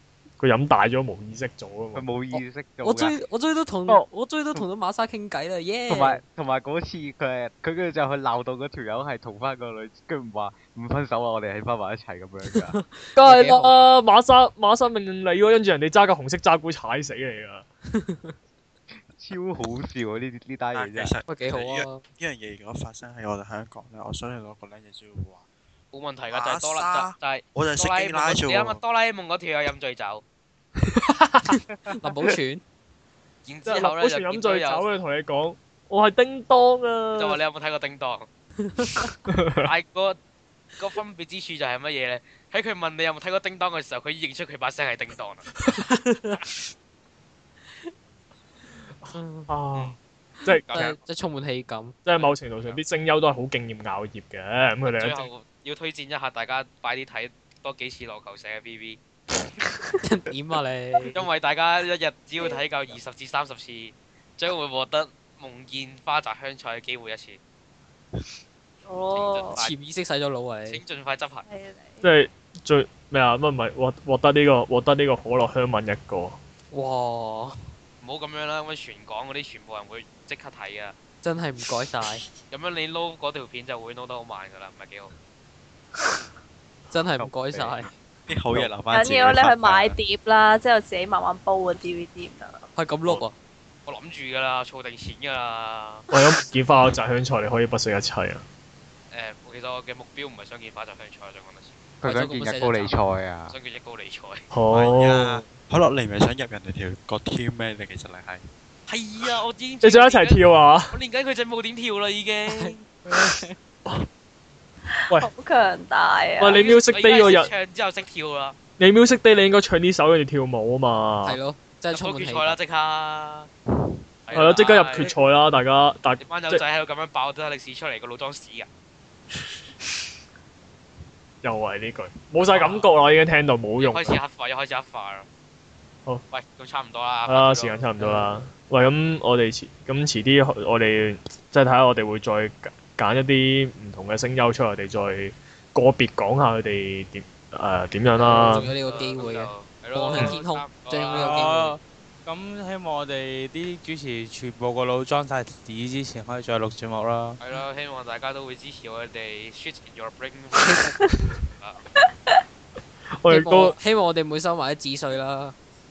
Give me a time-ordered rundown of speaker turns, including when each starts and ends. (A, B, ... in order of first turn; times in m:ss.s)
0:00.4-0:02.1 A
0:02.0-0:03.2 B
0:02.3-0:06.2 C
0:03.9-0:04.6 B
0:05.9-0:12.8 B
0:12.5-0:13.8 C
0:13.2-0:17.7 A
0:17.9-0:18.4 C
0:19.2-0:21.2 B
0:20.8-0:25.4 D
0:21.3-0:22.0 C
0:25.9-0:30.2 E
0:26.3-0:28.8 D
0:30.9-0:31.5 A
0:31.5-0:32.6 C
0:33.4-0:34.8 E
0:33.7-0:37.4 A
0:37.2-0:38.3 E
0:38.6-0:39.2 C
0:39.3-0:39.7 A
0:39.6-0:40.2 E
0:40.8-0:45.6 E
0:45.7-0:46.4 C
0:49.1-0:49.5 C
0:49.5-0:50.9 A
0:50.5-0:52.0 C
0:50.7-0:51.0 E
0:52.0-0:55.3 A
0:52.2-0:52.8 E
0:54.9-0:59.0 E
1:00.0-1:01.3 C
1:01.1-1:07.4 E
1:08.9-1:09.6 F
1:09.1-1:09.7 E
1:09.6-1:10.8 C
1:10.7-1:11.4 E
1:11.4-1:12.0 F
1:12.0-1:16.4 A
1:16.7-1:17.6 C
1:18.0-1:21.0 E
1:21.2-1:22.2 C
1:22.5-1:25.1 E
1:26.9-1:28.0 C
1:27.2-1:27.9 B
1:28.3-1:30.0 D
1:28.9-1:32.6 F
1:32.8-1:33.4 C
1:33.9-1:36.1 E
1:36.1-1:38.4 A
1:39.1-1:41.8 E
1:42.0-1:43.5 B
1:42.0-1:42.9 C
1:43.5-1:44.5 E
1:44.5-1:45.5 A
1:44.7-1:48.4 D
1:48.9-1:50.4 E
1:49.8-1:51.0 A
1:50.9-1:52.8 E
1:52.5-1:53.6 C
1:55.1-1:56.6 F
1:56.4-1:57.5 A
1:56.6-1:58.6 E
1:58.8-2:01.4 A
2:01.2-2:02.6 C
2:01.9-2:03.5 E
2:04.3-2:05.1 E
2:04.3-2:06.6 A
2:06.2-2:08.7 E
2:11.4-2:14.2 A
2:12.4-2:12.9 E
2:13.8-2:15.3 E
2:16.3-2:17.9 E
2:17.3-2:28.7 A
2:18.0-2:18.4 C
2:28.2-2:31.8 C
2:28.8-2:31.4 E
2:31.1-2:37.4 G
2:37.4-2:41.0 E
2:43.2-2:43.8 A
2:43.3-2:45.6 C